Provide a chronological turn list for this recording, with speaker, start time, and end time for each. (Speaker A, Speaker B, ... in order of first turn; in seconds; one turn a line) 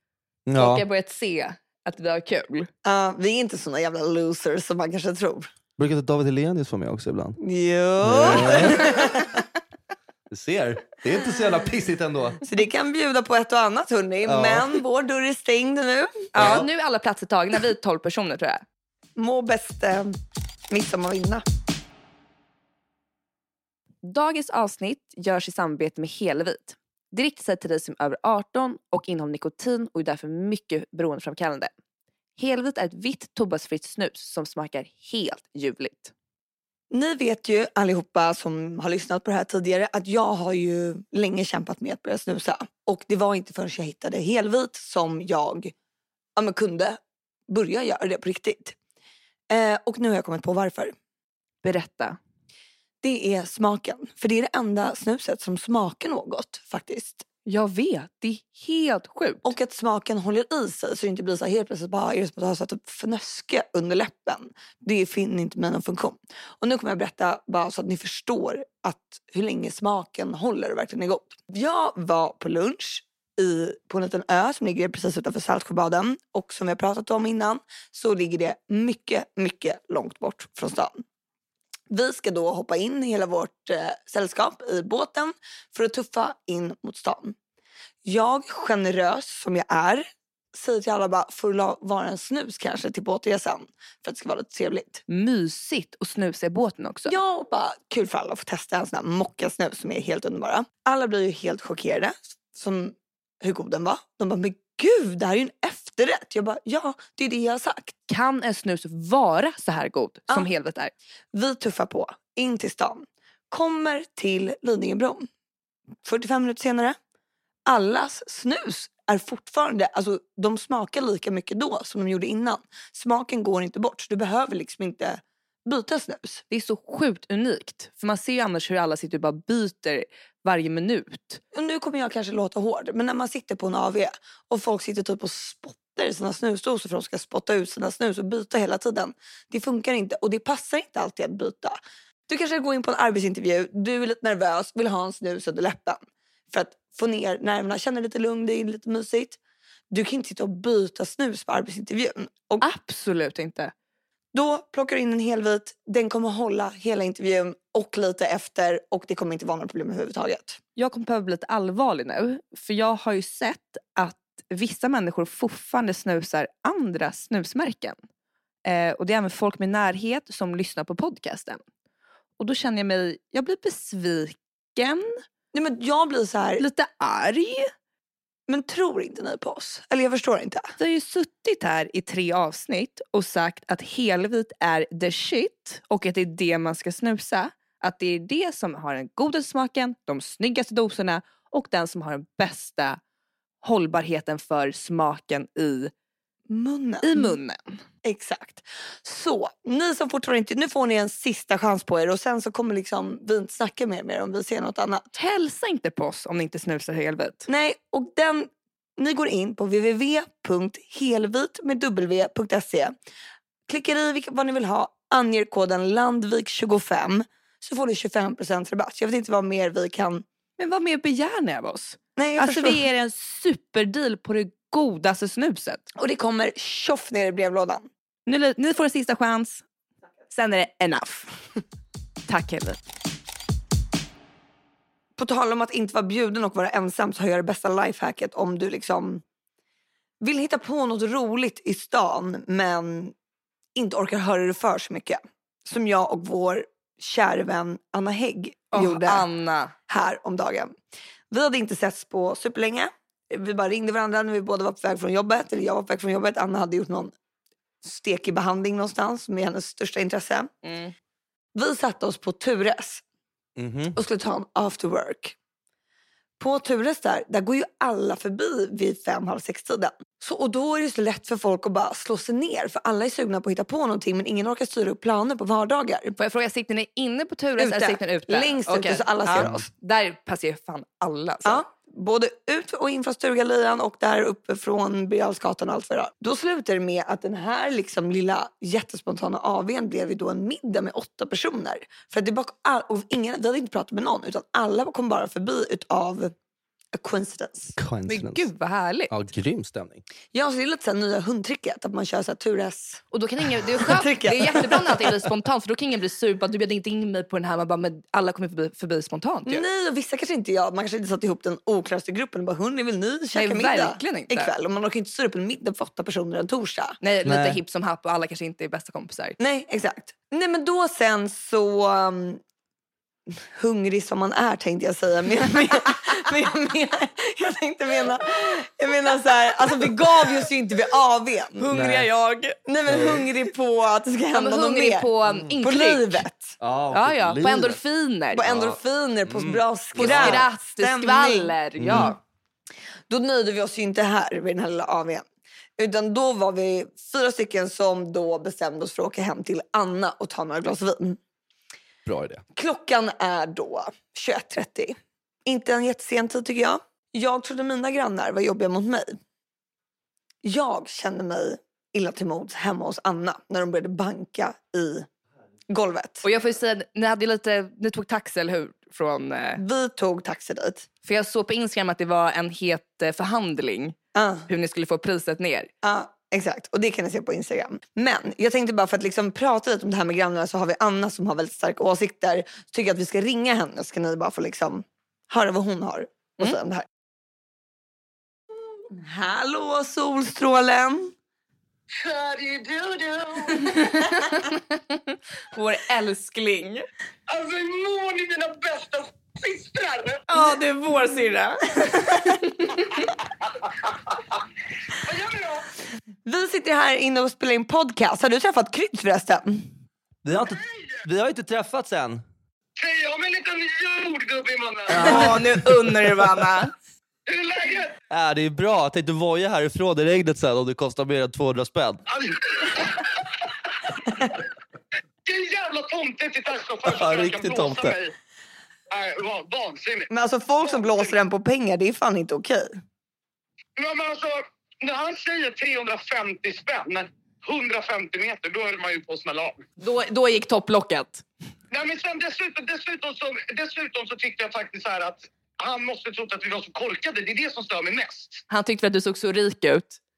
Speaker A: 0.5-0.8
Speaker B: 0.5-2.7
Speaker C: 2.9-5.5
Speaker A: 5.8-7.4
Speaker C: 7.4-9.4
Speaker A: 8.0-9.2
Speaker A: 10.3-12.4
Speaker C: 12.4-16.3
Speaker A: 14.2-14.8
Speaker B: 16.3-18.6
Speaker A: 16.4-16.7
Speaker C: 19.2-20.2
Speaker C: 20.7-21.4
Speaker B: 24.0-31.7
Speaker B: 32.4-36.1
Speaker C: 36.9-45.7
Speaker C: 46.4-48.8
Speaker C: 49.5-50.9
Speaker B: 51.6-52.2
Speaker C: 53.0-57.2
Speaker B: 57.5-59.5
Speaker C: 59.4-81.0
Speaker C: 81.9-87.3
Speaker C: 88.0-95.0
Speaker B: 95.1-97.2
Speaker C: 97.1-108.0
Speaker B: 108.1-110.9
Speaker C: 111.3-115.3
Speaker C: 116.0-117.0
Speaker C: 117.7-126.4
Speaker B: 126.5-131.4
Speaker C: 131.5-141.8
Speaker C: 142.3-146.0
Speaker C: 146.5-149.4
Speaker C: 149.9-152.6
Speaker B: 152.6-153.7
Speaker C: 154.3-160.6
Speaker B: 160.8-168.0
Speaker B: 168.7-171.6
Speaker B: 172.4-175.2
Speaker C: 175.5-176.6
Speaker B: 176.6-177.7
Speaker C: 178.5-180.7
Speaker B: 180.8-193.0
Speaker B: 193.6-195.9
Speaker C: 196.5-197.3
Speaker B: 197.0-197.8
Speaker C: 198.1-205.1
Speaker B: 205.2-207.5
Speaker C: 207.5-212.9
Speaker C: 213.7-220.2
Speaker B: 220.6-225.9
Speaker C: 222.2-222.8
Speaker C: 226.0-227.9
Speaker B: 228.2-229.6
Speaker B: 230.3-231.3
Speaker B: 232.3-232.8
Speaker C: 235.2-239.2
Speaker C: 240.2-243.1
Speaker C: 243.8-249.2
Speaker B: 248.7-249.7
Speaker C: 249.9-250.8
Speaker C: 251.3-257.1
Speaker C: 257.8-260.5
Speaker B: 260.6-260.9
Speaker C: 261.6-263.0
Speaker A: 263.6-264.0
Speaker C: 263.9-265.4
Speaker C: 266.4-276.1
Speaker B: 276.2-281.6
Speaker C: 277.6-279.7
Speaker A: 279.3-279.6
Speaker C: 281.4-296.3
Speaker C: 296.9-297.8
Speaker A: 297.8-298.5
Speaker B: 298.1-299.1
Speaker A: 299.1-300.0
Speaker C: 300.3-303.0
Speaker B: 303.1-309.6
Speaker C: 303.8-305.1
Speaker C: 309.5-317.0
Speaker B: 313.4-314.5
Speaker B: 317.0-319.4
Speaker A: 317.2-317.6
Speaker C: 319.4-322.4
Speaker C: 323.6-331.7
Speaker B: 331.6-332.6
Speaker A: 331.7-332.1
Speaker C: 332.7-336.6
Speaker A: 332.9-333.2
Speaker B: 334.3-336.2
Speaker A: 336.6-337.8
Speaker B: 336.9-338.4
Speaker C: 338.3-341.6
Speaker A: 338.4-340.4
Speaker B: 339.9-342.2
Speaker A: 341.8-342.1
Speaker C: 343.1-345.2
Speaker C: 345.8-351.2
Speaker A: 352.1-352.4
Speaker C: 352.6-359.2
Speaker C: 360.4-365.1
Speaker C: 365.7-366.2
Speaker B: 366.2-369.6
Speaker C: 369.6-370.9
Speaker B: 371.1-374.0
Speaker C: 374.1-374.5
Speaker B: 374.5-375.7
Speaker C: 375.8-386.9
Speaker C: 388.9-391.1
Speaker D: 391.9-393.8
Speaker B: 393.6-396.9
Speaker D: 397.3-400.2
Speaker B: 400.3-403.1
Speaker D: 403.4-404.2
Speaker D: 404.9-405.7
Speaker C: 406.2-409.7
Speaker A: 410.2-412.2
Speaker D: 410.6-411.0
Speaker D: 412.8-415.2
Speaker A: 414.9-415.4
Speaker B: 414.9-416.7
Speaker D: 417.2-418.0
Speaker A: 418.1-422.0
Speaker D: 422.1-423.3
Speaker D: 425.2-428.1
Speaker A: 426.9-428.0
Speaker D: 428.9-430.1
Speaker C: 430.1-432.7
Speaker D: 430.6-431.1
Speaker D: 433.8-439.6
Speaker B: 439.8-441.2
Speaker D: 441.7-448.4
Speaker B: 448.5-450.0